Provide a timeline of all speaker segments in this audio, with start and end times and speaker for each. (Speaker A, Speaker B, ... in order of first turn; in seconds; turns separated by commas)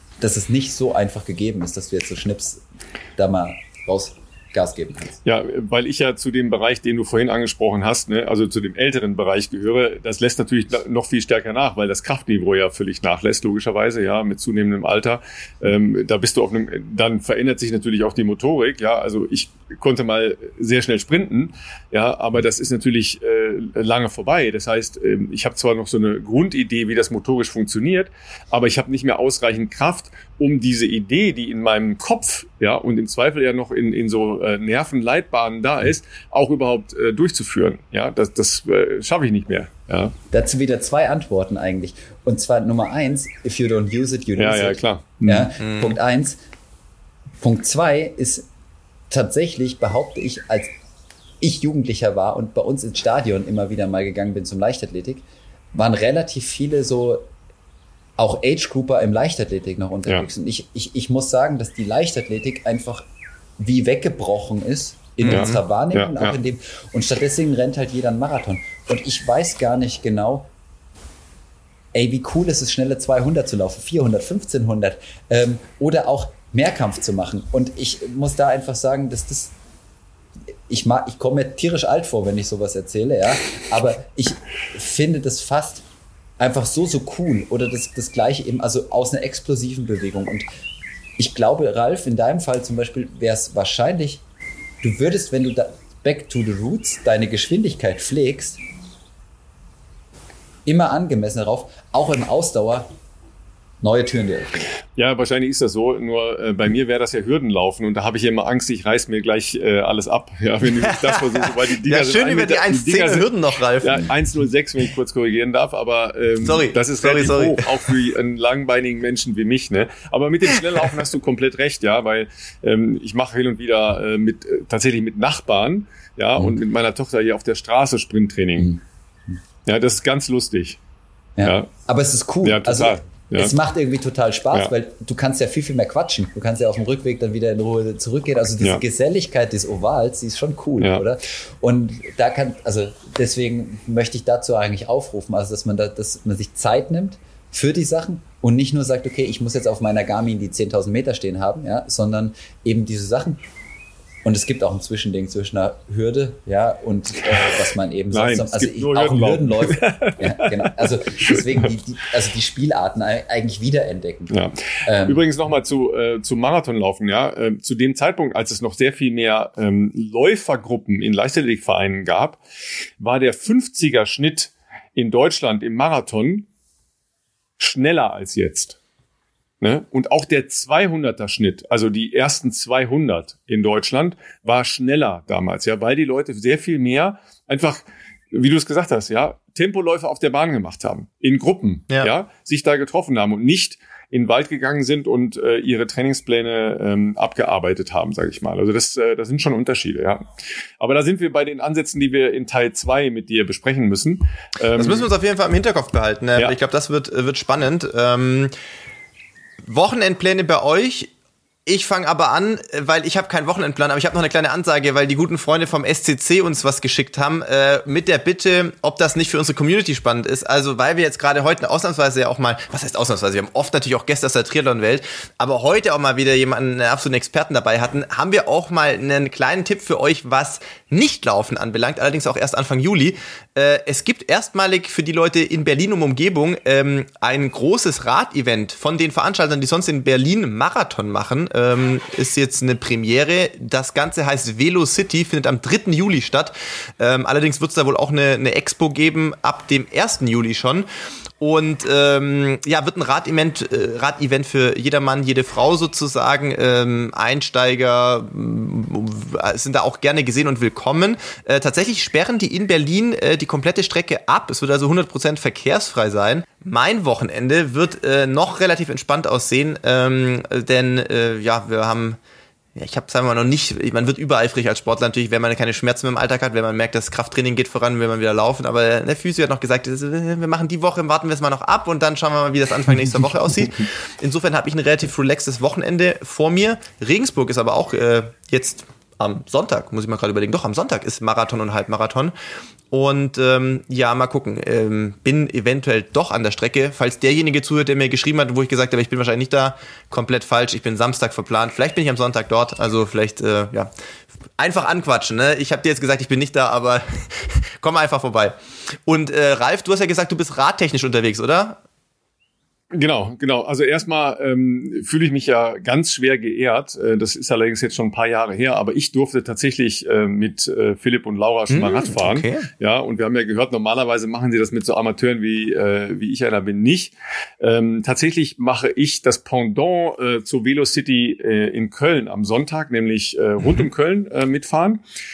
Speaker A: 0.2-2.6, Speaker A: 3.2-5.2, Speaker B: 5.2-40.1, Speaker A: 40.3-46.4, Speaker B: 44.4-45.5, Speaker C: 45.6-46.0, Speaker A: 47.4-48.5, Speaker A: 49.1-50.7, Speaker A: 51.4-57.3, Speaker A: 58.2-63.1, Speaker A: 63.6-70.5, Speaker C: 65.2-65.6, Speaker B: 65.3-66.4, Speaker A: 71.9-79.5, Speaker A: 80.7-85.8, Speaker A: 86.4-90.5, Speaker A: 91.2-94.2, Speaker A: 94.8-98.6, Speaker A: 100.7-102.9, Speaker A: 103.8-104.7, Speaker B: 105.0-113.3, Speaker C: 111.3-114.1, Speaker B: 113.8-128.7, Speaker C: 116.4-117.9, Speaker B: 129.7-130.8, Speaker A: 131.4-153.4, Speaker B: 131.4-131.7, Speaker B: 132.4-133.5, Speaker B: 140.8-141.1, Speaker A: 154.2-165.2, Speaker B: 158.1-161.8, Speaker B: 164.3-172.4, Speaker B: 173.0-176.5, Speaker B: 177.6-178.8, Speaker B: 179.6-200.3, Speaker B: 200.8-205.1, Speaker C: 204.8-208.6, Speaker C: 209.6-211.1, Speaker C: 211.7-250.9, Speaker C: 251.4-272.2, Speaker C: 272.8-292.3, Speaker C: 292.9-303.9, Speaker C: 304.6-311.8, Speaker B: 312.9-335.0, Speaker C: 321.7-322.7